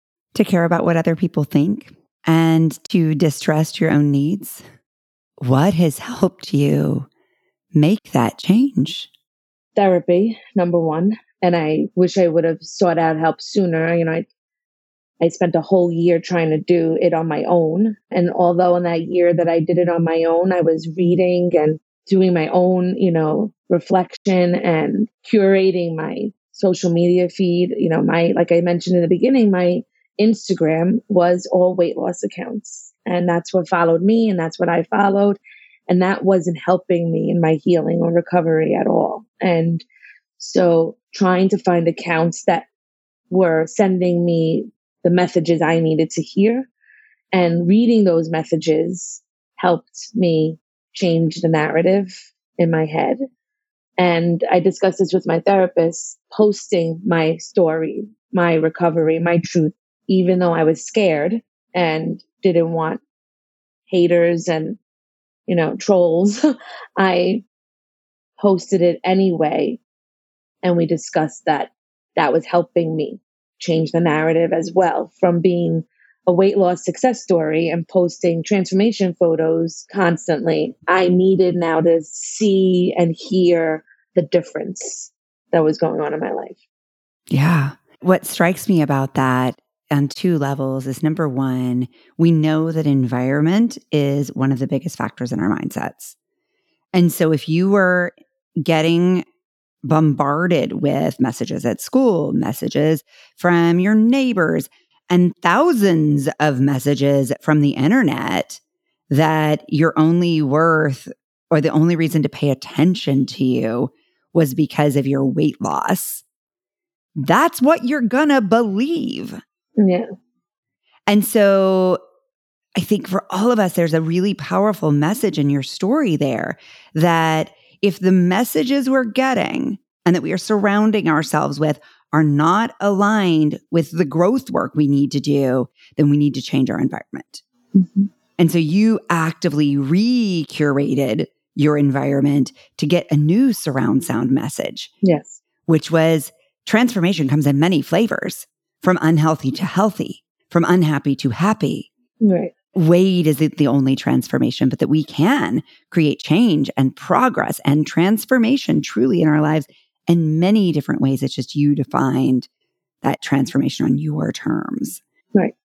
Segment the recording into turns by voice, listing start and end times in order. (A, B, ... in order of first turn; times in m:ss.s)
0:00.3-0:04.6 A
0:05.4-0:07.1 A
0:07.7-0:09.1 A
0:09.8-0:14.3 B
0:15.2-0:39.8 B
0:40.4-0:42.7 B
0:43.3-0:46.7 B
0:47.3-0:53.2 B
0:54.0-1:03.0 B
1:03.9-1:04.8 B
1:05.5-1:06.4 B
1:07.0-1:07.4 B
1:08.4-1:09.8 B
1:10.6-1:26.6 B
1:27.3-1:36.1 A
1:36.9-1:39.2 A
1:39.8-1:56.2 A
1:57.2-1:59.4 A
1:59.8-2:00.0 B
2:01.1-2:02.0 A
2:02.7-2:17.4 A
2:17.7-2:18.1 B
2:18.4-2:24.9 A
2:25.0-2:25.4 B
2:25.6-2:31.9 A
2:32.2-2:32.5 B
2:32.7-2:42.5 A
2:43.0-2:45.0 A